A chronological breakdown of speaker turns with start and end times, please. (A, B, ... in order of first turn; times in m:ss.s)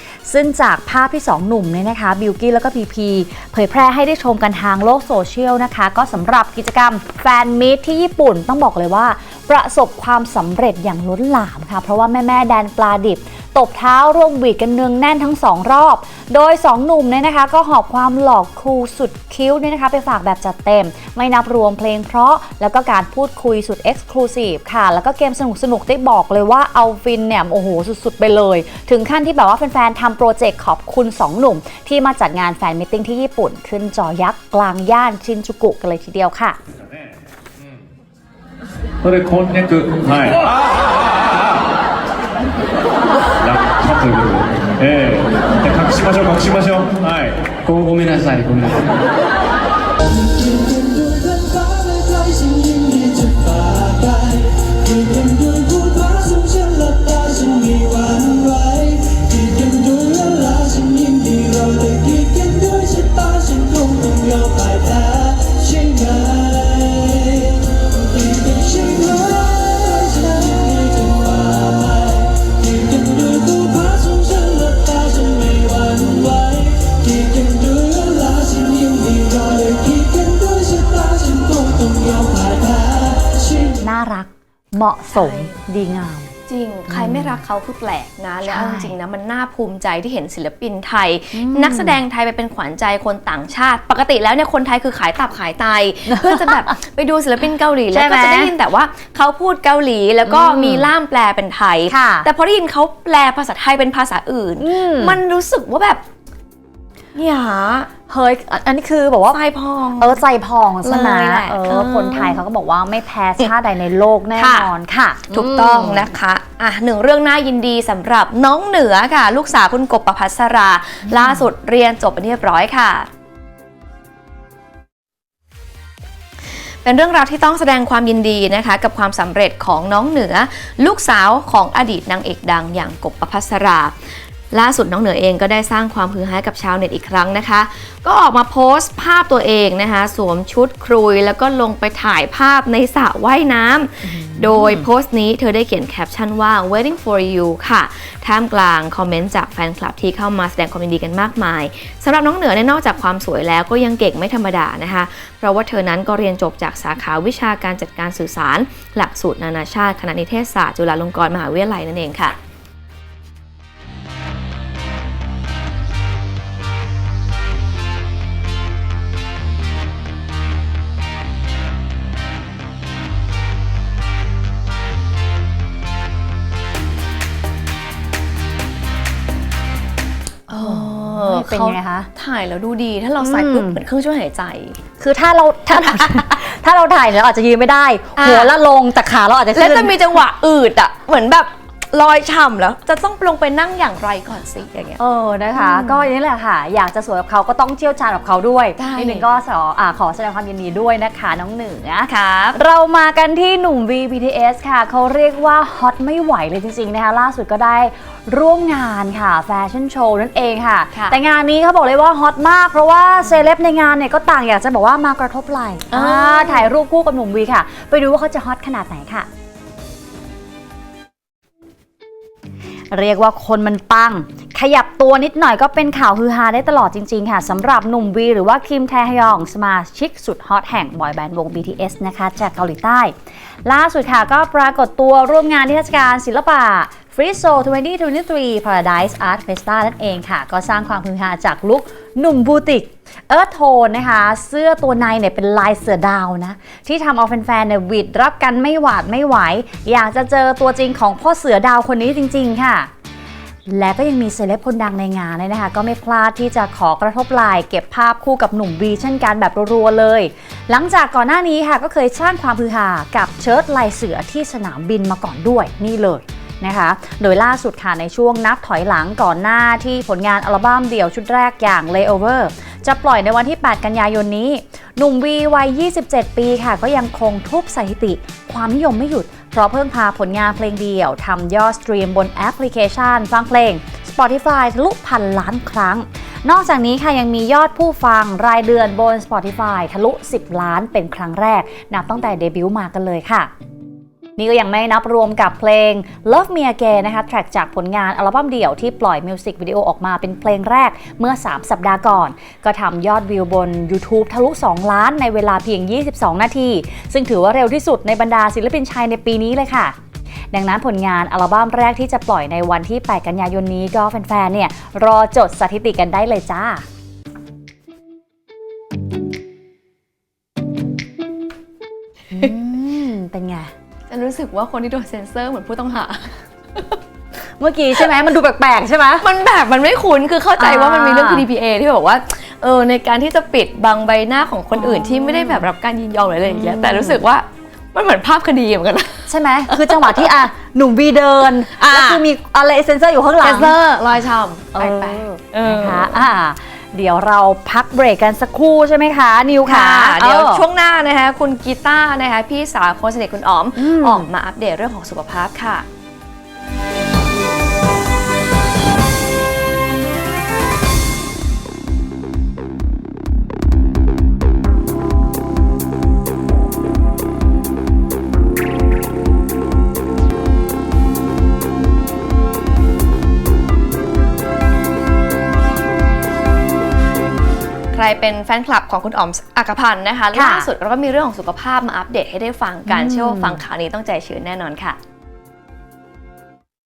0:00.2-0:36.6 A
0:39.0-0:40.5 B
0:43.4-0:49.0 B
1:20.7-1:22.8 C
1:23.7-1:26.3 A
1:25.1-1:25.5 C
1:26.5-1:46.0 C
1:26.9-1:27.4 A
1:28.4-1:29.0 A
1:31.3-1:32.0 A
1:36.1-1:36.7 A
1:37.9-1:38.5 A
1:40.3-1:40.9 A
1:41.9-1:42.3 A
1:44.6-1:45.2 A
1:47.1-1:47.9 C
1:48.1-1:49.4 A
1:49.3-1:50.2 C
1:50.0-1:56.1 A
1:50.8-1:52.4 C
1:54.4-1:54.7 C
1:55.3-2:03.1 C
2:06.6-2:42.4 C
2:24.0-2:24.9 A
3:00.5-3:04.8 C
3:00.6-3:02.1 A
3:03.2-3:03.8 A
3:05.0-3:10.0 A
3:05.7-3:06.4 C
3:08.2-3:08.5 C
3:09.5-3:15.0 C
3:15.0-3:39.3 A
3:15.6-3:16.1 C
3:18.8-3:19.2 C
3:22.1-3:22.6 C
3:35.9-3:36.7 C
3:42.9-3:53.1 A
3:53.6-4:12.9 A
4:13.7-4:53.5 A
4:54.4-5:09.9 A
5:10.5-5:16.8 A
5:22.3-5:23.7 A
5:24.1-5:27.0 C
5:27.6-5:29.2 A
5:29.2-5:40.3 C
5:30.6-5:31.4 A
5:34.8-5:35.6 A
5:36.5-5:37.2 A
5:39.3-5:43.7 A
5:41.8-5:42.2 C
5:43.4-5:46.2 C
5:44.7-5:50.6 A
5:49.6-5:55.9 C
5:53.8-5:54.3 A
6:17.9-6:25.0 C
6:20.3-6:20.7 A
6:22.9-6:23.6 A